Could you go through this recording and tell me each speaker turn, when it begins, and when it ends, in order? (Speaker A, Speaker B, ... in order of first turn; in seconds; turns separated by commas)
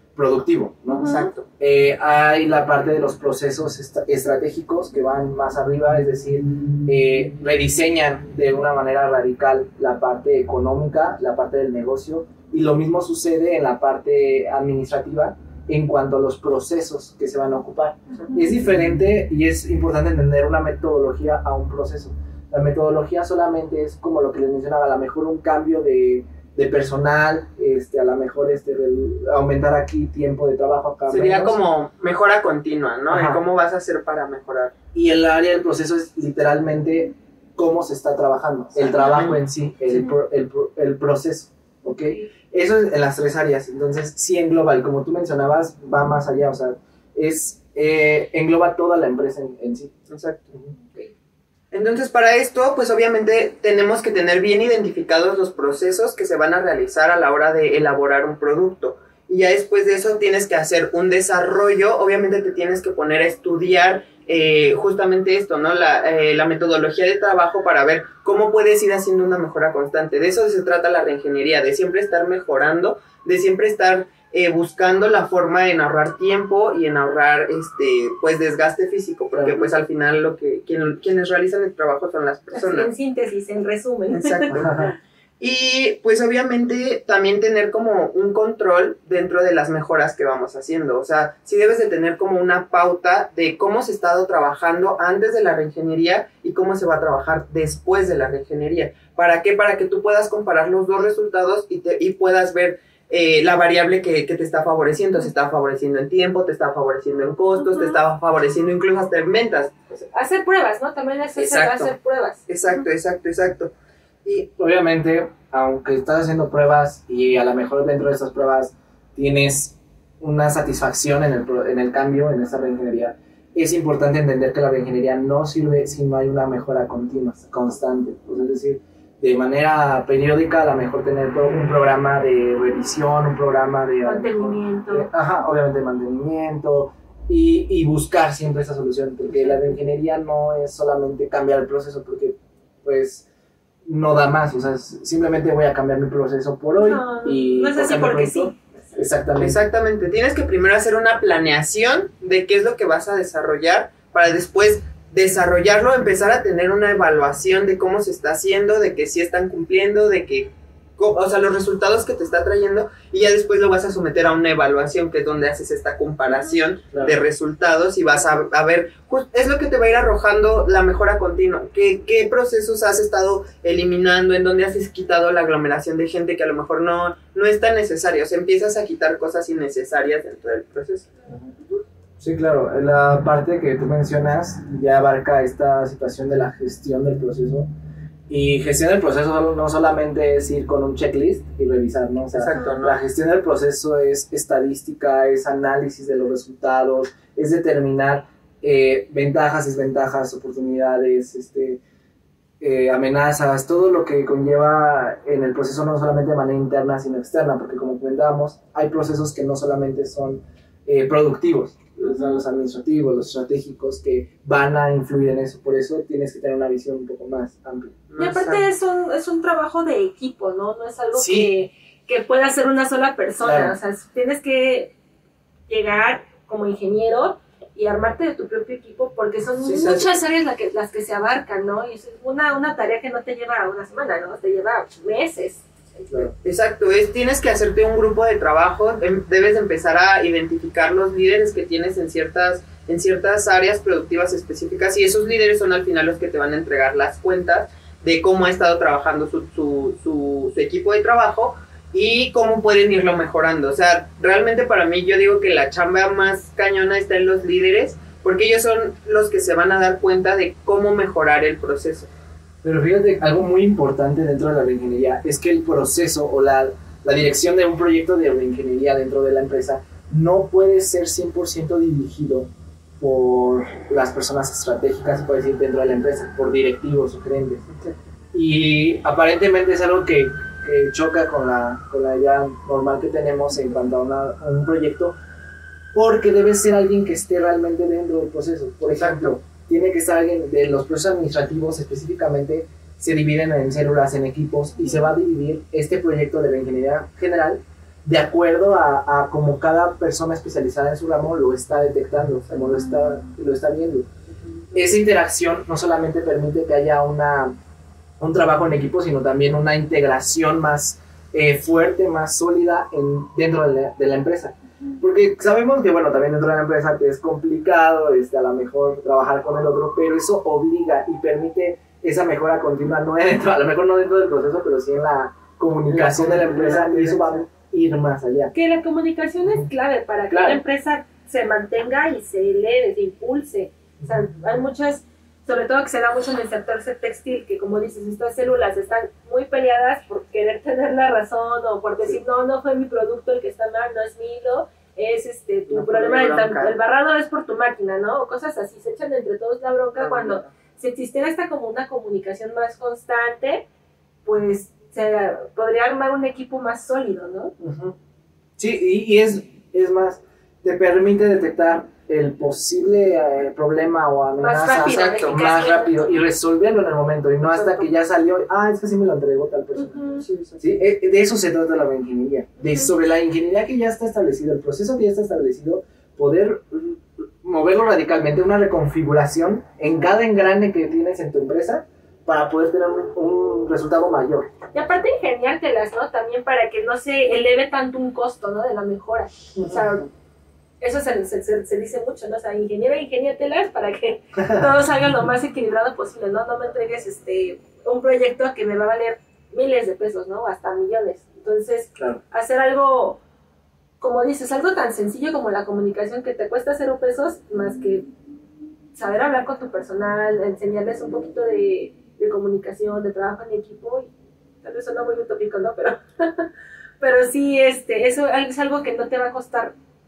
Speaker A: 0.1-31.6, Speaker B: 1.0-1.4, Speaker B: 31.1-34.7, Speaker A: 33.1-33.4, Speaker A: 34.9-49.9, Speaker B: 38.8-39.4, Speaker B: 50.1-50.5, Speaker C: 50.8-51.1, Speaker B: 51.7-82.9, Speaker A: 79.3-79.7, Speaker C: 82.5-84.9, Speaker B: 84.1-84.9, Speaker A: 84.5-84.9, Speaker B: 85.4-110.1, Speaker C: 110.1-112.4, Speaker B: 111.4-111.9, Speaker B: 112.5-113.7, Speaker A: 114.6-143.2, Speaker C: 134.0-135.1, Speaker A: 143.8-149.6, Speaker C: 146.8-148.5, Speaker B: 149.4-181.1, Speaker A: 166.9-167.2, Speaker A: 182.2-187.7, Speaker A: 188.3-201.8, Speaker B: 192.3-193.0, Speaker A: 202.6-218.0, Speaker B: 218.1-218.7, Speaker C: 218.2-224.9, Speaker A: 221.1-221.5, Speaker A: 223.4-223.8, Speaker C: 225.7-236.3, Speaker A: 229.6-230.0, Speaker B: 229.7-230.0, Speaker B: 236.4-262.1, Speaker A: 262.6-277.6, Speaker B: 277.7-277.9, Speaker A: 278.3-285.1, Speaker A: 285.9-304.1, Speaker B: 288.9-289.3, Speaker A: 304.7-307.5, Speaker A: 308.2-328.5, Speaker B: 325.9-327.4, Speaker C: 328.5-353.6, Speaker A: 330.3-330.6, Speaker B: 345.7-346.8, Speaker B: 350.0-350.5, Speaker C: 354.2-357.5, Speaker A: 357.6-357.9, Speaker A: 358.6-370.0, Speaker C: 364.4-365.9, Speaker B: 364.8-365.4, Speaker C: 367.5-367.9, Speaker C: 369.8-370.2, Speaker B: 370.2-370.6, Speaker A: 370.6-384.5, Speaker C: 384.7-390.1, Speaker C: 390.8-403.2, Speaker C: 404.0-408.1, Speaker C: 408.9-414.1, Speaker C: 414.6-416.5, Speaker C: 417.0-419.7